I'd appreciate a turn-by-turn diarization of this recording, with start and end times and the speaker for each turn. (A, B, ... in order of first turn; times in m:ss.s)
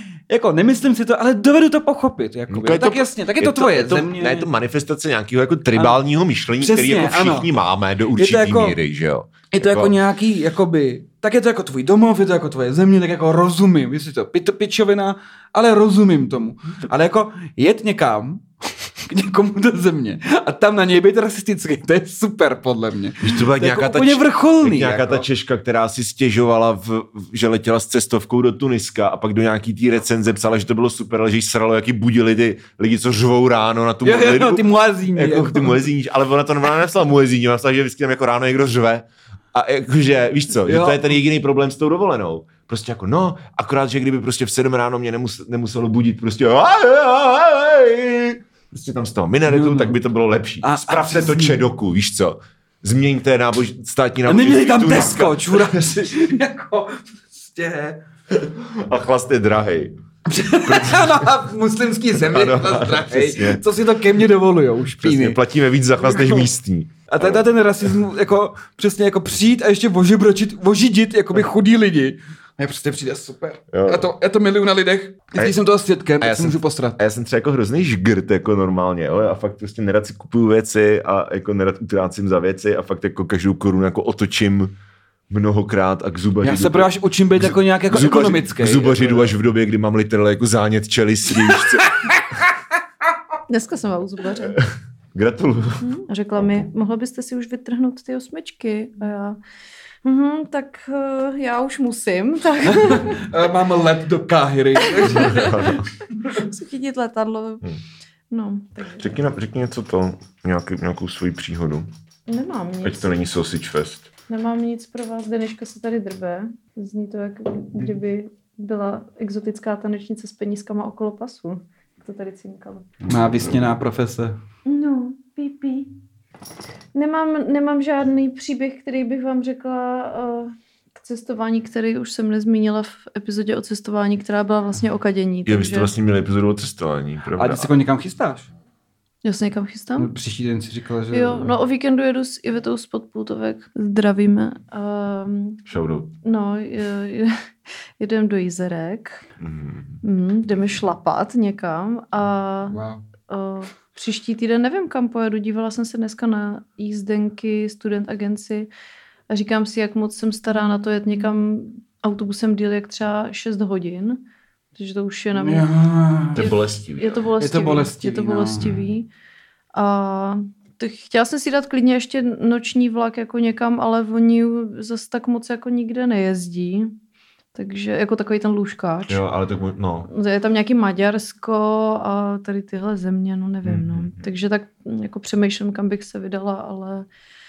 0:00.3-0:04.5 A
0:02.5-0:10.0 B
0:05.7-0:06.0 A
0:06.6-0:07.5 A
0:08.2-0:08.8 A
0:09.5-0:25.2 A
0:23.2-0:56.1 B
0:34.0-0:35.8 A
0:40.6-0:41.1 A
0:49.5-0:50.0 A
0:50.6-0:51.6 A
0:54.3-0:58.0 A
0:58.3-0:59.9 B
1:00.3-1:05.4 A
1:00.6-1:01.3 B
1:02.1-1:03.6 B
1:05.0-1:08.0 B
1:06.0-1:06.5 A
1:07.1-1:17.0 A
1:13.7-1:14.1 B
1:16.2-1:24.7 B
1:25.3-1:31.9 B
1:26.4-1:29.3 A
1:31.4-1:32.5 A
1:33.5-1:34.6 C
1:34.6-1:35.8 B
1:35.8-1:39.4 C
1:40.0-1:43.2 C
1:42.6-1:46.4 A
1:44.8-1:45.7 C
1:45.1-1:45.8 B
1:46.3-1:47.6 C
1:48.3-1:49.1 C
1:49.0-1:51.9 B
1:52.3-1:53.1 C
1:52.8-1:54.1 B
1:54.3-2:02.9 C
2:03.0-2:03.7 B
2:03.1-2:04.4 A
2:04.6-2:05.9 C
2:06.9-2:15.9 C
2:15.4-2:17.7 B
2:17.4-2:18.5 A
2:19.2-2:20.1 C
2:20.0-2:21.6 A
2:21.1-2:25.6 C
2:25.7-2:26.1 B
2:26.2-2:27.3 C
2:28.0-2:29.2 C
2:29.4-2:30.0 B
2:30.0-2:38.7 C
2:32.7-2:33.0 A
2:39.3-2:44.2 C
2:44.7-2:45.7 C
2:45.4-2:46.5 A
2:46.3-2:47.3 B
2:46.3-2:49.1 C
2:47.4-2:48.7 A
2:48.6-2:48.8 B
2:49.7-2:56.9 C
2:57.5-2:59.2 C
2:59.1-3:00.1 B
3:00.0-3:07.1 C
3:03.6-3:04.2 B